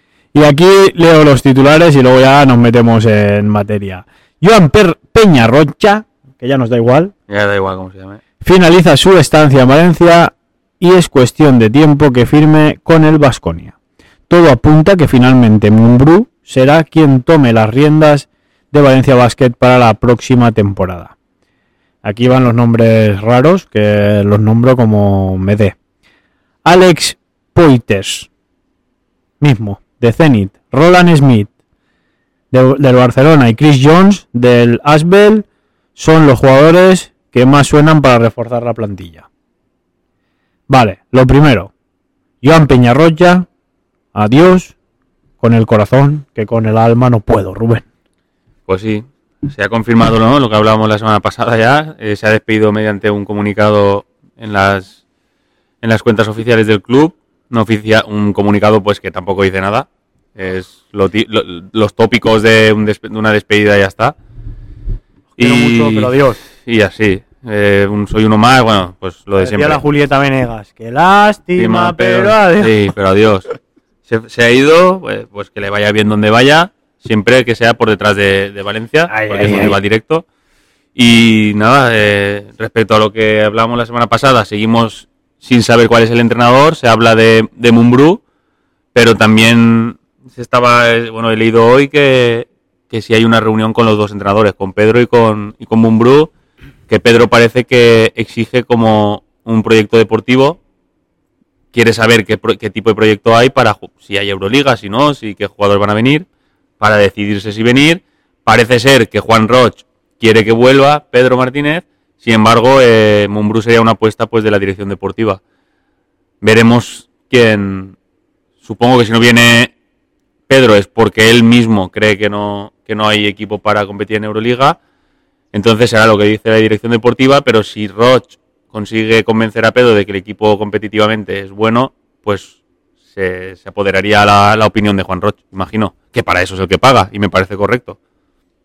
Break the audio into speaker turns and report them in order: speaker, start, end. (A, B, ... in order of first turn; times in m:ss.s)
0:00.3-0:07.1 A
0:07.3-0:08.2 B
0:08.4-0:13.7 A
0:14.3-0:21.1 A
0:22.0-0:25.8 A
0:26.6-0:28.3 A
0:29.4-0:31.5 A
0:32.5-0:39.2 A
0:40.7-0:41.7 A
0:42.4-0:43.5 A
0:44.1-0:44.7 A
0:45.4-0:47.8 A
0:48.7-0:55.0 B
0:55.8-1:04.2 B
1:05.4-1:06.4 A
1:05.4-1:09.8 B
1:09.4-1:12.7 A
1:11.6-1:13.5 B
1:14.1-1:20.2 B
1:19.1-1:19.8 A
1:20.9-1:28.2 B
1:28.9-1:36.3 B
1:36.9-1:40.6 B
1:41.7-1:46.2 B
1:46.8-1:55.4 B
1:56.4-1:58.0 B
1:58.6-1:59.7 B
2:00.5-2:04.8 B
2:05.5-2:12.5 B
2:13.1-2:18.0 B